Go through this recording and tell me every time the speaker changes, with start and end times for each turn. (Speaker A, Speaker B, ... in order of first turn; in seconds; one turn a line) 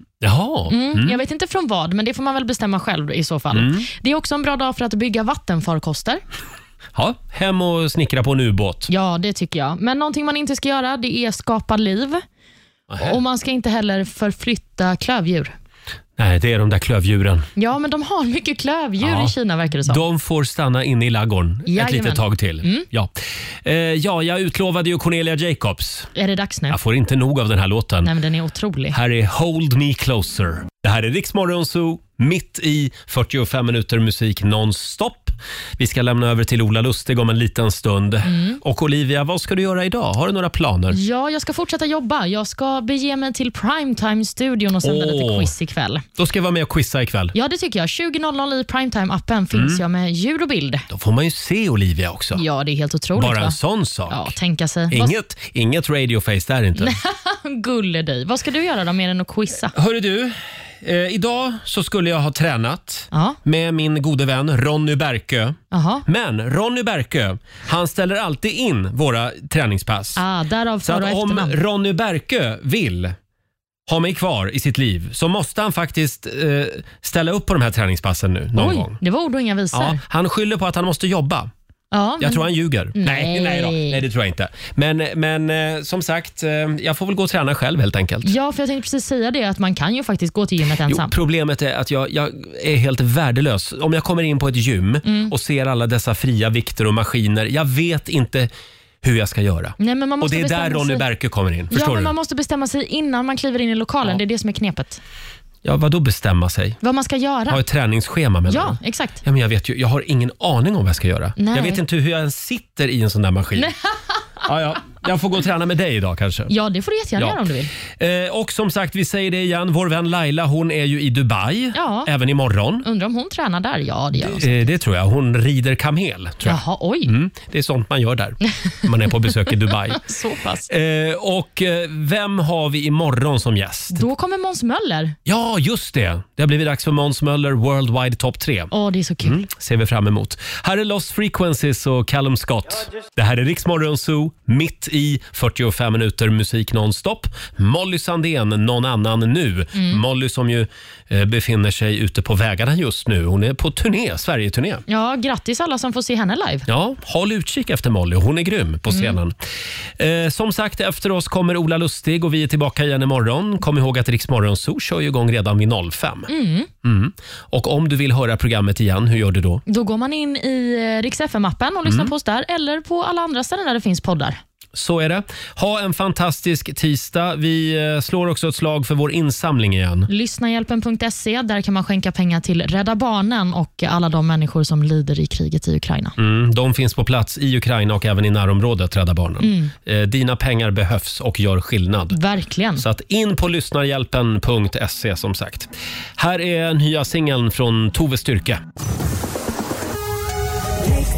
Speaker A: 0.2-1.2
Speaker B: 0.7-6.2
Speaker A: 3.5-3.9
Speaker A: 6.9-8.9
Speaker B: 8.9-12.2
Speaker A: 12.9-13.2
Speaker B: 13.0-15.5
Speaker A: 16.2-17.5
Speaker B: 17.6-20.0
Speaker A: 19.0-19.3
Speaker A: 19.9-23.1
Speaker B: 21.7-22.9
Speaker A: 23.6-26.1
Speaker B: 26.1-26.8
Speaker A: 26.7-28.1
Speaker B: 28.0-29.0
Speaker A: 28.9-41.0
Speaker B: 38.2-38.6
Speaker B: 40.9-46.0
Speaker A: 44.8-45.5
Speaker A: 46.2-47.3
Speaker B: 47.3-50.9
Speaker A: 49.5-49.8
Speaker A: 50.9-52.4
Speaker B: 52.3-53.6
Speaker A: 53.1-54.3
Speaker B: 54.1-55.1
Speaker A: 54.9-57.0
Speaker B: 56.8-59.7
Speaker A: 59.7-70.2
Speaker B: 63.1-63.4
Speaker B: 65.7-66.0
Speaker B: 70.2-71.6
Speaker A: 70.8-73.1
Speaker A: 73.9-79.0
Speaker B: 78.5-80.0
Speaker A: 79.7-81.5
Speaker B: 81.9-84.0
Speaker A: 82.2-88.3
Speaker B: 88.2-91.1
Speaker A: 90.8-98.5
Speaker B: 95.0-95.3
Speaker A: 99.0-102.1
Speaker B: 99.8-101.0
Speaker B: 101.7-105.0
Speaker A: 105.6-106.8
Speaker B: 106.8-107.6
Speaker A: 107.5-113.7
Speaker B: 108.5-109.2
Speaker B: 111.4-111.8
Speaker A: 114.4-116.5
Speaker B: 116.5-117.7
Speaker A: 117.2-122.8
Speaker B: 121.7-122.1
Speaker B: 122.8-124.6
Speaker A: 124.2-130.0
Speaker B: 126.4-127.1
Speaker B: 129.9-130.7
Speaker A: 130.7-134.1
Speaker B: 133.9-135.1
Speaker A: 135.2-154.8
Speaker B: 138.7-139.4
Speaker B: 149.7-150.0
Speaker B: 154.9-156.7
Speaker A: 156.7-159.3
Speaker B: 158.9-159.2
Speaker A: 160.0-166.3
Speaker B: 166.3-166.7
Speaker A: 166.8-169.6
Speaker B: 169.7-174.4
Speaker A: 171.8-172.1
Speaker A: 174.7-180.1
Speaker B: 180.1-186.1
Speaker A: 186.2-192.2
Speaker B: 189.4-189.7
Speaker B: 192.1-192.8
Speaker A: 192.8-198.6